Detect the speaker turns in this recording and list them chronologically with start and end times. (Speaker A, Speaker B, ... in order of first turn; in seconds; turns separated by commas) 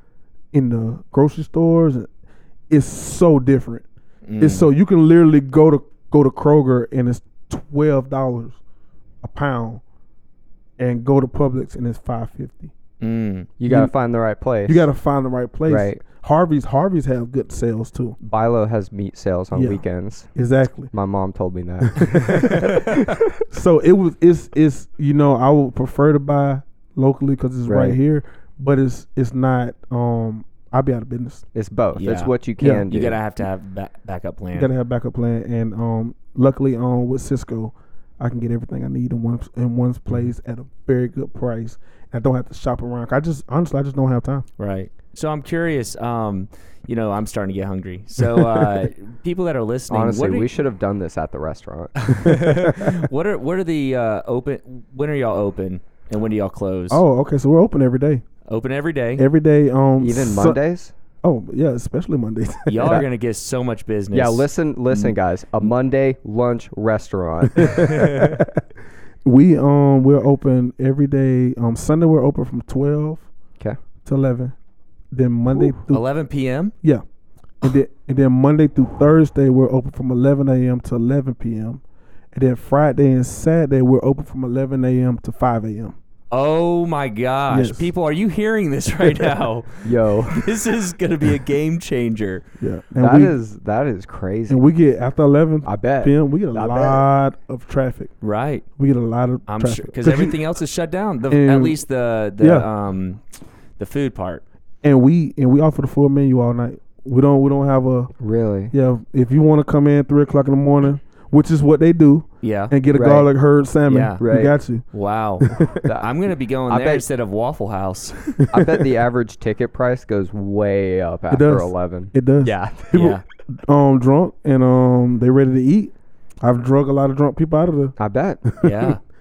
Speaker A: 0.5-2.1, Speaker A: 2.7-3.9, Speaker B: 4.3-4.7, Speaker A: 4.4-8.6, Speaker A: 9.2-9.8, Speaker A: 10.8-12.7, Speaker B: 13.0-13.5, Speaker C: 13.6-14.9, Speaker A: 13.7-13.9, Speaker A: 14.7-18.2, Speaker C: 15.7-16.0, Speaker C: 18.2-20.3, Speaker A: 19.5-19.8, Speaker A: 20.3-20.9, Speaker C: 20.9-22.5, Speaker A: 21.8-31.4, Speaker C: 27.7-28.0, Speaker C: 31.5-33.2, Speaker B: 32.0-32.3, Speaker A: 32.6-32.9, Speaker B: 32.9-34.7, Speaker A: 34.5-44.5, Speaker B: 44.6-50.5, Speaker C: 49.9-52.2, Speaker B: 52.0-57.0, Speaker A: 52.2-53.0, Speaker A: 56.9-58.2, Speaker B: 58.5-59.2, Speaker A: 59.2-60.6, Speaker C: 60.0-60.9, Speaker A: 61.2-63.0, Speaker B: 62.7-65.1, Speaker C: 64.1-67.9, Speaker A: 67.6-68.5, Speaker B: 67.7-68.4, Speaker A: 69.2-73.3, Speaker A: 74.0-74.5, Speaker A: 75.1-76.0, Speaker B: 75.9-76.7, Speaker A: 77.6-81.8, Speaker A: 82.3-86.0, Speaker B: 86.3-92.4, Speaker A: 87.5-87.9, Speaker C: 89.8-90.5, Speaker A: 92.6-93.3, Speaker C: 93.0-94.6, Speaker A: 94.5-98.1, Speaker C: 95.7-97.0, Speaker B: 98.2-98.7, Speaker A: 98.8-100.4, Speaker B: 99.5-103.2, Speaker A: 101.3-101.8, Speaker A: 102.4-102.7, Speaker B: 103.8-104.5, Speaker A: 104.8-108.1, Speaker C: 108.2-108.7, Speaker A: 108.7-114.8, Speaker B: 112.4-112.7, Speaker C: 112.9-113.3, Speaker B: 113.9-114.2, Speaker C: 114.2-114.5, Speaker B: 114.9-118.6, Speaker A: 115.4-115.8, Speaker C: 115.8-116.2, Speaker C: 116.7-117.0, Speaker C: 118.5-123.2, Speaker A: 121.3-128.9, Speaker B: 122.9-123.2, Speaker C: 128.0-128.4, Speaker B: 128.6-129.0